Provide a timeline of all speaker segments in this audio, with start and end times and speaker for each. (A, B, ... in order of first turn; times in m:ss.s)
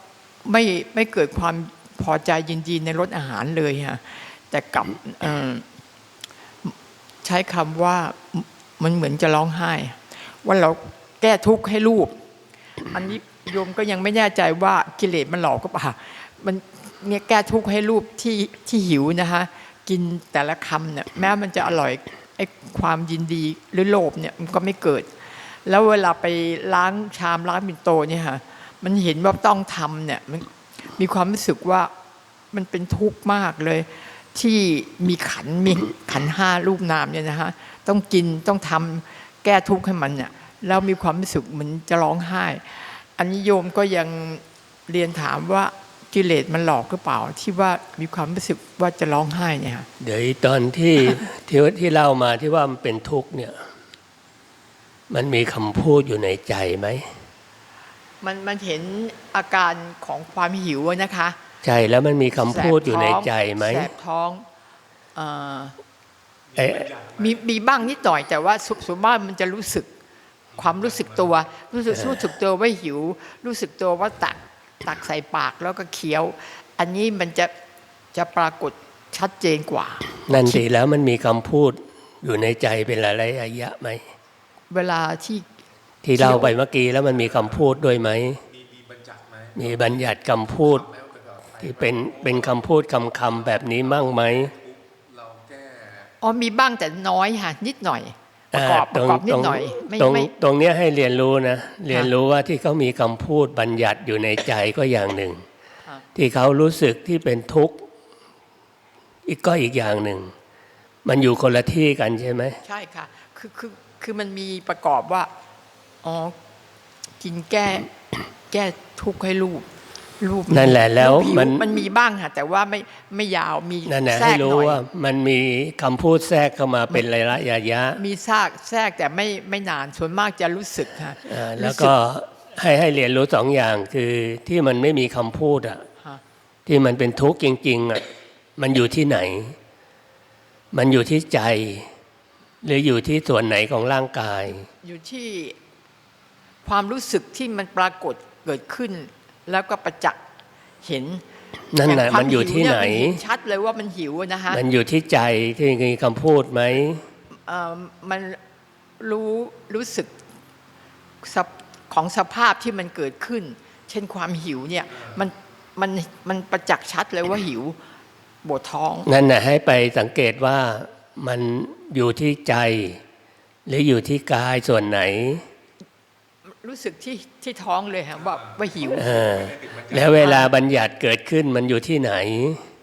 0:00.4-0:05.6 A
0:06.6-0:12.2 A
0:12.9-0:31.9 A
0:32.5-0:49.9 A
0:50.0-0:53.6 B
0:55.1-0:57.1 B
0:58.2-1:01.4 A
1:01.6-1:03.9 B
1:02.3-1:04.4 A
1:05.2-1:05.8 A
1:06.6-1:06.9 B
1:06.7-1:09.9 A
1:06.9-1:07.2 C
1:10.5-1:17.5 A
1:11.0-1:11.2 C
1:11.9-1:12.3 B
1:18.1-1:20.6 A
1:20.3-1:24.1 B
1:24.7-1:25.4 A
1:26.0-1:28.4 B
1:26.2-1:26.6 A
1:28.5-1:29.9 C
1:29.6-1:30.9 B
1:30.9-1:32.6 C
1:31.6-1:34.5 B
1:33.5-1:36.1 C
1:36.2-1:40.3 A
1:38.5-1:45.4 B
1:46.2-1:47.8 B
1:49.3-1:50.3 B
1:51.0-1:52.6 B
1:52.6-1:55.3 A
1:56.0-1:56.4 A
1:57.2-1:57.9 A
1:58.5-1:59.7 A
2:00.2-2:04.8 A
2:00.5-2:01.8 B
2:03.8-2:08.0 B
2:08.0-2:12.0 A
2:11.2-2:15.9 B
2:16.7-2:18.0 B
2:18.6-2:19.6 B
2:20.7-2:21.9 B
2:22.6-2:24.7 B
2:24.8-2:25.6 A
2:26.6-2:30.2 A
2:30.8-2:31.2 A
2:31.7-2:33.2 B
2:31.8-2:34.6 A
2:34.5-2:37.0 B
2:37.5-2:38.4 A
2:39.0-2:40.1 A
2:41.2-2:47.8 A
2:48.4-2:49.1 A
2:49.0-2:53.0 B
2:53.7-2:55.4 B
2:56.5-2:59.5 A
2:58.9-3:02.6 B
2:59.5-2:59.9 C
3:00.0-3:00.5 A